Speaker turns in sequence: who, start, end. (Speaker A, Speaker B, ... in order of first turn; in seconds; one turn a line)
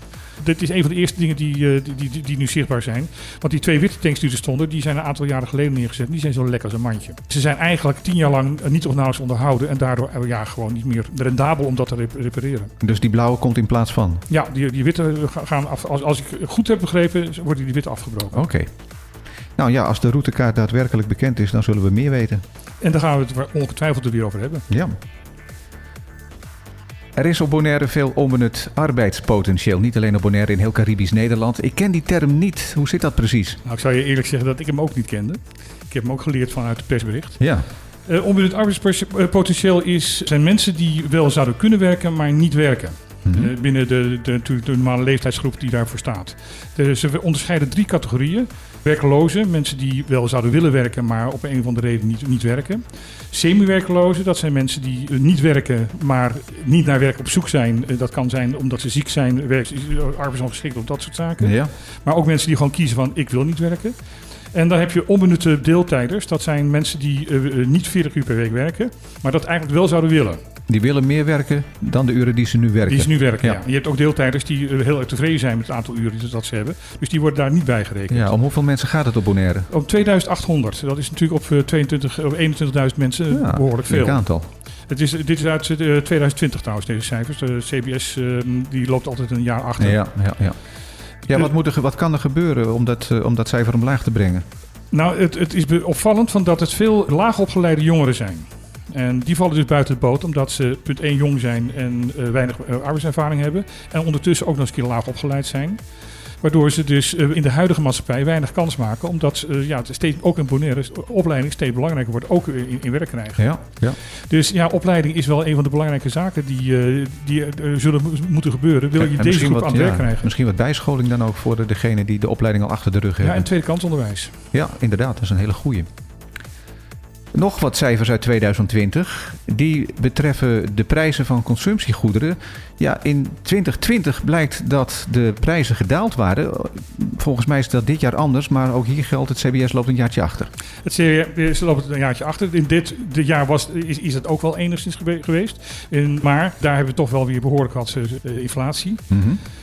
Speaker A: 0.4-12.7
Speaker B: 12.8-14.2
Speaker A: 14.3-18.4
Speaker B: 18.3-18.7
Speaker B: 19.6-22.4
Speaker A: 22.8-24.7
Speaker B: 24.7-24.9
Speaker B: 27.1-33.6
Speaker A: 33.6-37.5
Speaker A: 38.0-63.9
Speaker B: 43.2-43.5
Speaker B: 61.4-61.7
Speaker A: 64.5-70.4
Speaker B: 70.7-73.6
Speaker A: 72.9-78.3
Speaker B: 78.1-79.7
Speaker A: 79.7-84.2
Speaker B: 83.3-84.5
Speaker A: 84.9-90.0
Speaker B: 89.8-90.5
Speaker B: 91.3-94.4
Speaker A: 94.9-105.8
Speaker A: 106.4-120.3
Speaker B: 113.4-114.0
Speaker B: 119.0-123.4
Speaker A: 123.2-124.3
Speaker B: 124.5-125.9
Speaker B: 127.3-140.5
Speaker A: 140.8-149.0
Speaker B: 149.1-149.4